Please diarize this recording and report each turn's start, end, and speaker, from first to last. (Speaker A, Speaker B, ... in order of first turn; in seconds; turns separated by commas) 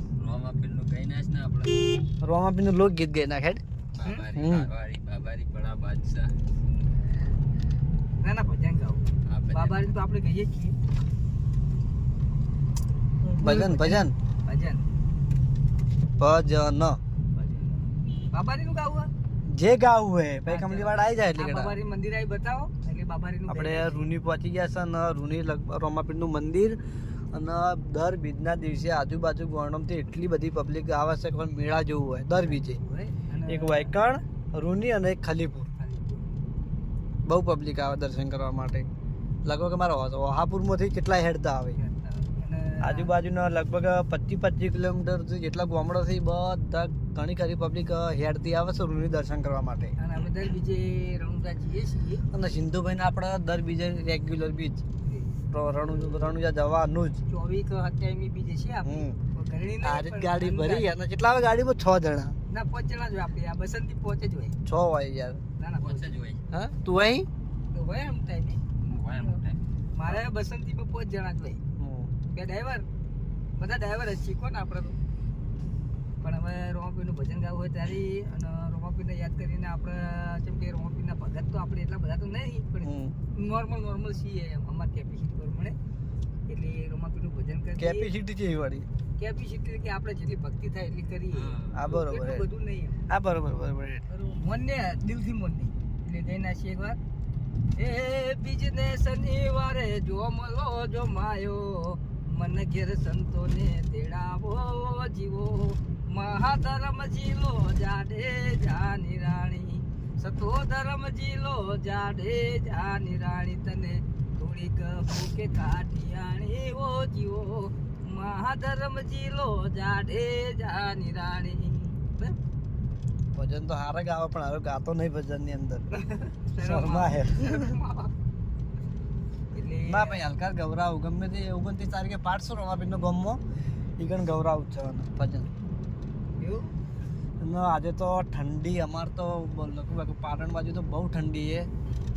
Speaker A: 0.2-2.1, Speaker B: 2.2-3.6, Speaker A: 4.0-6.3, Speaker B: 4.3-4.7, Speaker C: 8.2-10.7, Speaker A: 9.3-9.8, Speaker C: 13.3-14.8, Speaker B: 13.4-14.1, Speaker B: 16.2-17.0, Speaker C: 17.4-19.1, Speaker B: 19.4-21.8, Speaker C: 20.5-24.0, Speaker B: 23.5-26.8, Speaker B: 27.3-32.8, Speaker C: 32.4-34.0, Speaker B: 33.5-35.7, Speaker C: 35.8-36.4, Speaker B: 37.3-38.9, Speaker B: 39.5-41.8, Speaker C: 41.8-43.1, Speaker B: 42.8-49.9, Speaker C: 50.0-52.2, Speaker B: 52.3-54.8, Speaker C: 55.0-56.2, Speaker B: 55.5-57.2, Speaker C: 57.3-60.9, Speaker B: 58.8-59.2, Speaker B: 59.8-62.4, Speaker C: 62.5-64.6, Speaker B: 64.7-65.4, Speaker C: 65.6-66.1, Speaker A: 65.8-66.4, Speaker B: 66.5-67.3, Speaker C: 67.7-69.4, Speaker A: 68.9-69.6, Speaker C: 69.9-71.6, Speaker B: 71.8-72.1, Speaker C: 72.3-72.9, Speaker C: 73.6-75.0, Speaker C: 76.2-85.8, Speaker B: 82.8-83.2, Speaker C: 86.5-88.1, Speaker B: 87.8-88.9, Speaker C: 89.2-93.0, Speaker A: 91.3-91.8, Speaker B: 91.7-92.5, Speaker B: 93.1-94.0, Speaker C: 94.1-97.0, Speaker C: 97.8-122.4, Speaker B: 123.3-125.8, Speaker C: 125.9-128.1, Speaker B: 126.6-127.7, Speaker C: 129.5-130.2, Speaker B: 129.9-133.4, Speaker B: 134.0-135.5, Speaker C: 136.4-136.7, Speaker B: 137.4-141.7